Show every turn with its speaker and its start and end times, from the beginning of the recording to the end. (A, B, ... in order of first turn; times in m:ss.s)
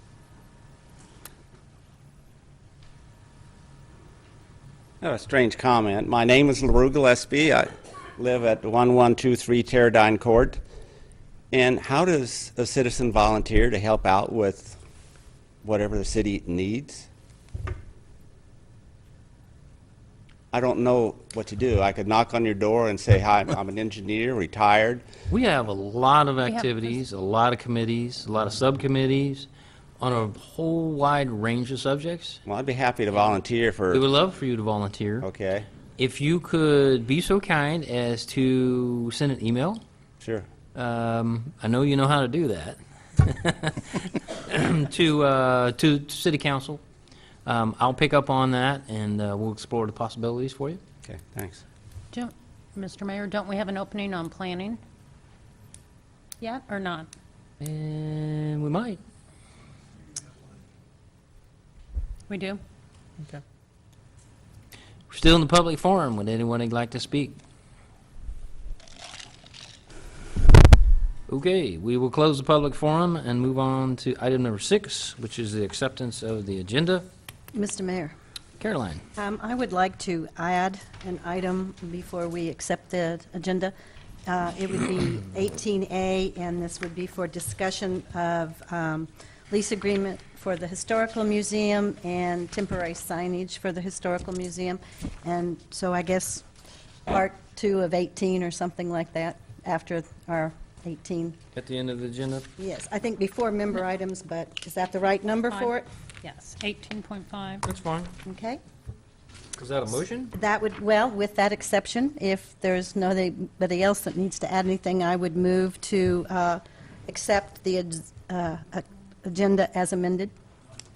0:05.0-0:10.6 A
0:11.5-0:14.8 A
0:15.6-0:17.1 A
0:20.5-0:25.0 A
0:25.3-0:29.5 B
0:30.0-0:32.4 B
0:32.5-0:34.0 A
0:33.9-0:35.3 B
0:35.2-0:35.7 A
0:36.0-0:39.8 B
0:40.8-0:46.8 B
0:47.4-0:50.8 B
0:51.0-0:51.6 A
0:52.1-0:54.8 C
0:56.4-0:57.1 C
0:57.6-0:59.0 B
1:02.3-1:02.6 C
1:05.1-1:07.4 B
1:11.3-1:17.0 B
1:17.5-1:18.1 D
1:18.6-1:19.0 B
1:19.2-1:23.7 D
1:24.3-1:36.4 D
1:37.1-1:41.4 D
1:41.6-1:42.5 B
1:42.6-1:45.9 D
1:45.5-1:47.6 C
1:47.6-1:48.1 B
1:48.2-1:48.6 D
1:49.6-1:50.3 B
1:50.4-2:00.3 D